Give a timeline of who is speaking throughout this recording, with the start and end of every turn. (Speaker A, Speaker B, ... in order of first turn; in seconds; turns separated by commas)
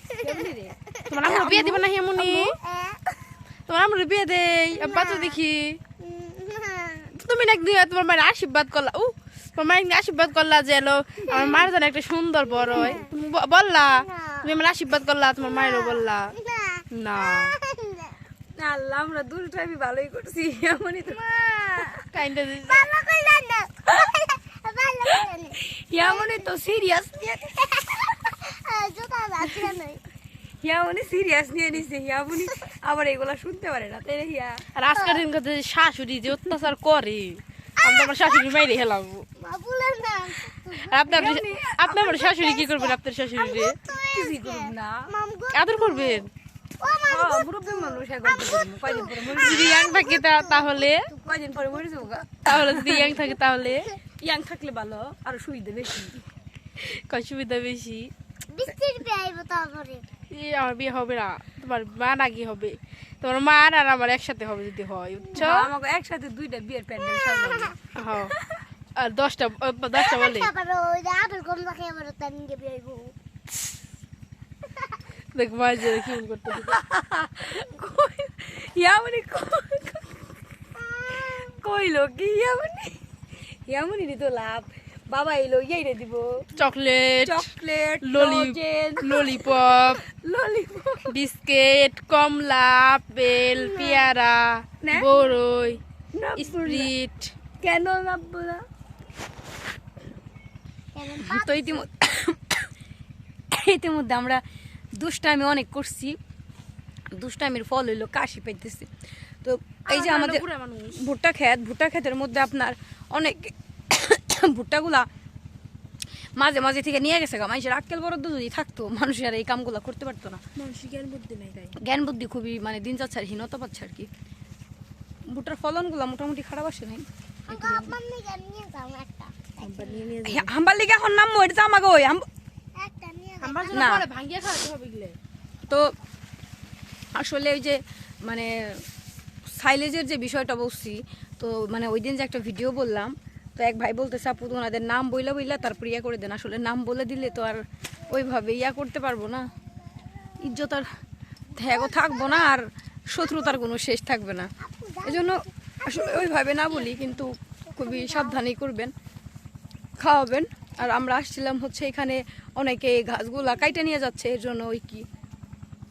Speaker A: 0.1-1.7, Speaker B: 0.2-2.5, Speaker C: 1.1-2.6, Speaker A: 2.5-3.2, Speaker C: 3.7-5.8, Speaker A: 4.8-5.4, Speaker A: 6.0-7.1, Speaker C: 7.1-16.3, Speaker A: 11.3-11.7, Speaker A: 12.5-13.1, Speaker A: 13.8-14.6, Speaker A: 15.4-18.2, Speaker C: 16.9-17.6, Speaker B: 18.6-21.2, Speaker A: 21.1-22.1, Speaker C: 22.1-22.9, Speaker A: 22.7-26.4, Speaker B: 25.1-28.3, Speaker A: 27.7-30.0, Speaker B: 30.6-34.6, Speaker C: 34.7-39.2, Speaker A: 35.0-35.2, Speaker A: 37.8-38.5, Speaker A: 39.4-41.2, Speaker C: 40.8-43.8, Speaker B: 41.1-42.2, Speaker A: 42.2-46.3, Speaker B: 43.9-45.1, Speaker C: 45.5-46.3, Speaker A: 46.8-51.8, Speaker B: 47.0-49.8, Speaker C: 49.3-51.1, Speaker B: 51.2-53.2, Speaker C: 52.5-53.9, Speaker B: 54.2-56.2, Speaker C: 56.8-58.1, Speaker A: 58.5-60.1, Speaker C: 60.3-65.7, Speaker B: 65.4-67.8, Speaker A: 67.2-67.7, Speaker C: 67.9-68.3, Speaker C: 69.0-70.5, Speaker A: 70.0-73.1, Speaker A: 74.7-75.0, Speaker C: 75.3-76.8, Speaker B: 76.6-80.2, Speaker B: 80.8-86.5, Speaker C: 86.5-87.5, Speaker B: 87.2-89.3, Speaker C: 88.0-90.0, Speaker B: 89.9-91.1, Speaker C: 91.1-95.8, Speaker A: 93.7-94.1, Speaker B: 94.8-95.1, Speaker B: 96.1-96.9, Speaker C: 96.4-97.3, Speaker B: 97.6-98.6, Speaker A: 100.9-101.8, Speaker B: 101.2-102.7, Speaker B: 103.5-104.4, Speaker B: 105.0-106.2, Speaker B: 107.1-108.9, Speaker B: 109.4-110.4, Speaker C: 109.9-111.1, Speaker B: 111.0-115.0, Speaker B: 116.4-120.4, Speaker C: 120.5-121.7, Speaker B: 121.8-124.1, Speaker B: 125.3-128.0, Speaker A: 127.5-130.1, Speaker C: 129.6-130.5, Speaker B: 130.2-132.2, Speaker A: 132.8-133.9, Speaker C: 133.4-135.2, Speaker B: 133.7-134.1, Speaker B: 135.7-135.9, Speaker B: 137.1-138.8, Speaker B: 139.5-149.4, Speaker B: 150.4-150.8, Speaker B: 151.6-154.5, Speaker A: 151.7-152.4, Speaker A: 154.6-157.0, Speaker B: 155.0-158.9, Speaker A: 157.7-158.4, Speaker B: 160.0-165.0